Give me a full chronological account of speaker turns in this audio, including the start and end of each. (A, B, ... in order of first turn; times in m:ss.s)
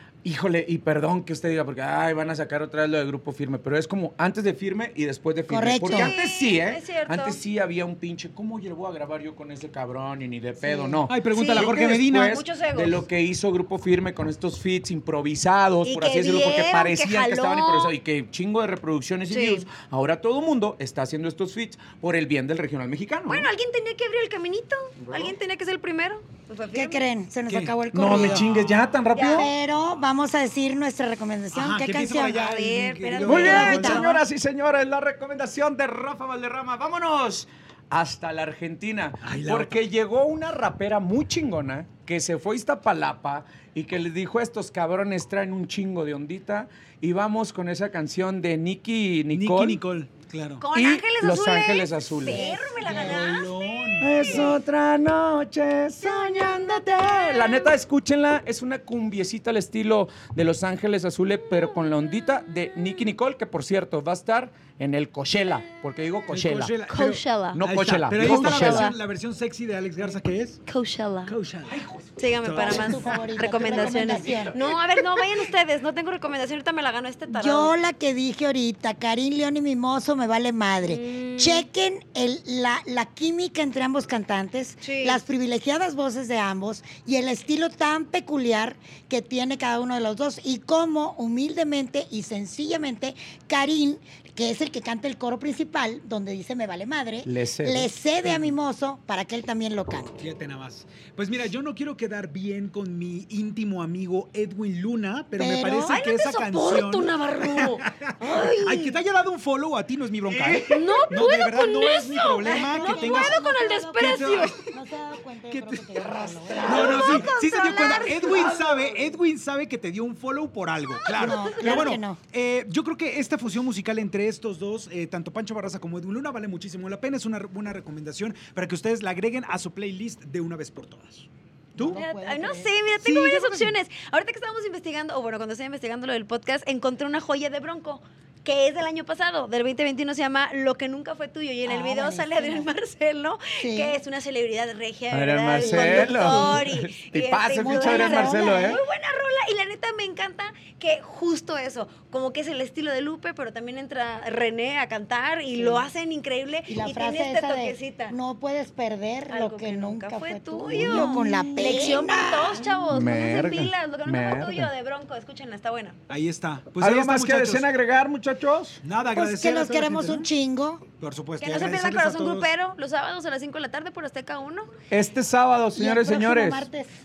0:00.2-0:23.5 A
0:05.5-0:06.1 B
0:05.9-0:07.4 C
0:10.6-0:11.0 B
0:11.1-0:12.4 D
0:11.3-0:13.0 C
0:15.8-0:17.9 C
0:19.3-0:19.7 C
0:23.3-0:27.0 C
0:25.0-0:25.3 A
0:26.7-0:28.5 B
0:27.5-0:29.5 A
0:28.1-0:28.8 D
0:29.1-0:29.5 C
0:29.3-0:32.5 B
0:31.5-0:34.2 D
0:32.3-0:34.1 C
0:33.2-0:49.8 A
0:33.3-0:34.0 B
0:39.2-0:39.8 D
0:49.3-0:50.6 D
0:50.6-0:54.6 C
0:50.7-0:52.5 A
0:52.2-0:53.4 B
0:52.8-0:54.6 D
0:54.0-1:06.7 A
0:56.0-0:57.7 C
1:06.3-1:10.6 D
1:06.9-1:07.6 C
1:07.5-1:08.9 A
1:08.1-1:09.0 C
1:10.7-1:11.3 C
1:11.2-1:11.8 D
1:11.7-1:12.1 A
1:12.2-1:17.7 C
1:12.4-1:13.9 D
1:12.6-1:14.6 B
1:13.6-1:14.6 A
1:17.3-1:40.1 B
1:20.8-1:21.6 C
1:24.8-1:25.2 C
1:37.2-1:37.9 A
1:38.2-1:38.5 D
1:40.2-1:53.4 D
1:45.4-1:46.0 B
1:45.8-1:49.0 C
1:50.3-1:50.8 A
1:50.7-1:54.7 C
1:52.4-1:57.3 B
1:54.0-1:54.6 D
1:55.5-2:12.0 D
1:56.6-1:58.6 C
1:58.3-1:58.8 A
2:01.1-2:02.2 B
2:11.8-2:12.7 B
2:11.9-2:38.2 C
2:13.0-2:13.8 D
2:21.6-2:22.7 B
2:23.6-2:24.0 B
2:25.1-2:28.8 A
2:25.6-2:26.6 B
2:27.5-2:28.8 B
2:35.5-2:35.9 B
2:36.7-2:42.7 B
2:39.3-2:46.0 C
2:40.6-2:41.1 A
2:42.9-2:44.7 A
2:46.1-2:47.6 D
2:46.8-2:48.8 A
2:48.8-2:50.3 D
2:49.1-2:50.8 B
2:51.0-2:52.5 D
2:51.4-2:54.7 C
2:54.9-2:56.7 A
2:55.7-2:56.9 B